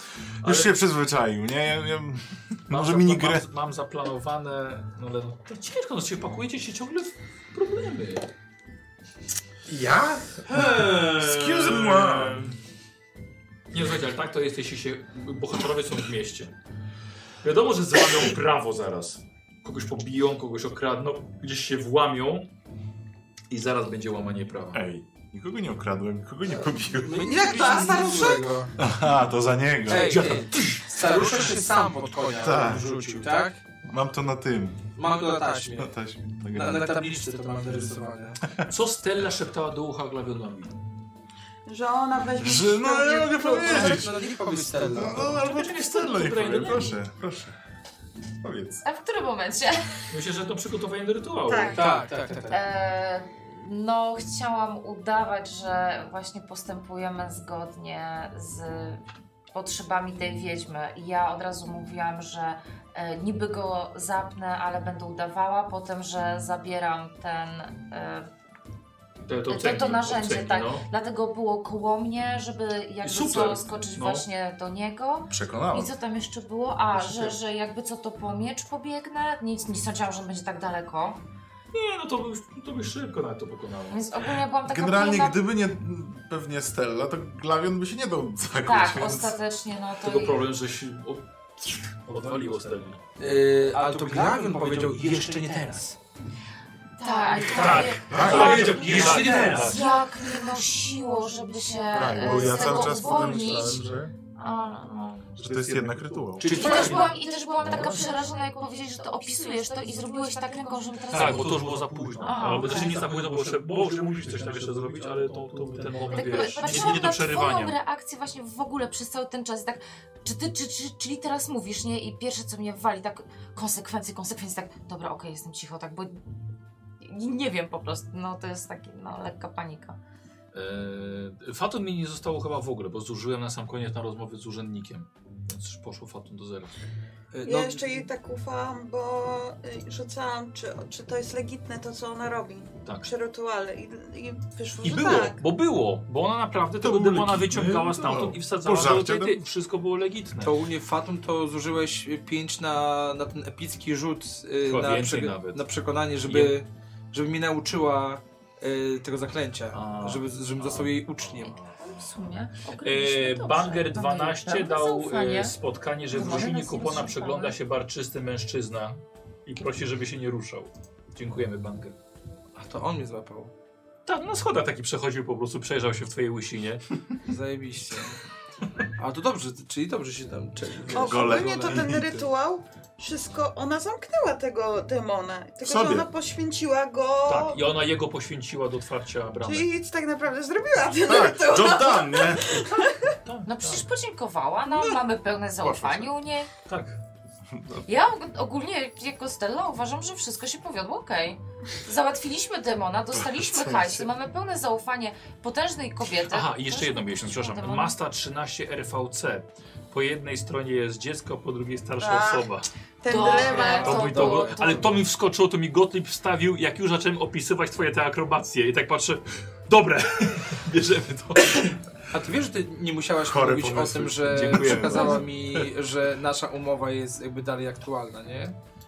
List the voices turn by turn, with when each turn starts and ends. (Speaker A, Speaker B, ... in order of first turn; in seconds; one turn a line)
Speaker A: 0.4-0.7
Speaker B: 0.4-3.4
Speaker A: 2.7-8.2
Speaker B: 9.7-12.5
Speaker A: 10.4-12.5
Speaker A: 13.7-16.5
Speaker A: 17.4-22.5
Speaker A: 23.5-24.8
Speaker B: 24.7-27.7
Speaker C: 26.9-28.7
Speaker D: 27.2-28.7
Speaker B: 28.8-30.5
Speaker C: 29.9-33.6
Speaker A: 29.9-33.5
Speaker B: 32.2-33.0
Speaker B: 33.8-37.1
Speaker C: 35.0-36.0
Speaker C: 36.5-38.4
Speaker A: 38.6-40.7
Speaker D: 41.6-44.1
Speaker B: 42.4-47.6
Speaker C: 43.4-45.4
Speaker A: 45.1-47.0
Speaker B: 48.4-48.8
Speaker E: 48.8-50.0
Speaker A: 50.1-52.0
Speaker D: 51.5-51.9
Speaker C: 51.7-52.6
Speaker E: 52.5-68.3
Speaker A: 69.3-70.9
Speaker E: 69.5-81.2
Speaker A: 73.0-74.3
Speaker B: 75.3-75.9
Speaker B: 77.0-77.3
Speaker A: 81.7-84.2
Speaker E: 83.9-85.4
Speaker B: 84.6-89.3
Speaker E: 88.6-90.5
Speaker A: 90.0-93.0
Speaker C: 93.2-96.0
Speaker A: 93.8-94.8
Speaker E: 97.0-105.3
Speaker A: 97.5-99.8
Speaker C: 97.5-100.0
Speaker B: 98.1-98.9
Speaker B: 101.9-104.1
Speaker A: 105.3-107.9
Speaker B: 105.4-106.6
Speaker C: 106.4-107.1
Speaker E: 106.4-113.1
Speaker A: 111.1-117.8
Speaker B: 111.1-111.4
Speaker E: 116.1-126.2
Speaker E: 127.0-130.0
Speaker A: 130.5-136.8
Speaker C: 137.3-138.1
Speaker D: 137.4-145.4
Speaker A: 142.8-143.1
Speaker A: 144.8-150.6
Speaker B: 146.8-149.4
Speaker C: 150.4-161.6
Speaker A: 154.6-155.6
Speaker A: 156.3-156.6
Speaker A: 159.7-161.8
Speaker E: 161.5-165.5
Speaker A: 162.7-171.9
Speaker E: 166.1-167.6
Speaker C: 172.5-173.5
Speaker A: 174.1-176.8
Speaker C: 177.2-178.2
Speaker C: 179.0-182.1
Speaker B: 180.9-182.1
Speaker D: 180.9-187.6
Speaker B: 185.6-186.1
Speaker A: 187.2-189.7
Speaker D: 189.4-193.1
Speaker B: 191.0-192.7
Speaker A: 193.2-193.8
Speaker E: 193.4-196.5
Speaker B: 195.6-196.1
Speaker A: 196.7-197.0
Speaker B: 197.5-197.8
Speaker E: 197.9-207.9
Speaker B: 203.1-204.1
Speaker A: 206.3-212.7
Speaker D: 212.0-212.5
Speaker D: 213.0-214.1
Speaker E: 213.1-215.0
Speaker C: 213.2-215.0
Speaker A: 213.4-221.8
Speaker C: 222.1-228.5
Speaker B: 223.2-225.7
Speaker A: 224.3-225.2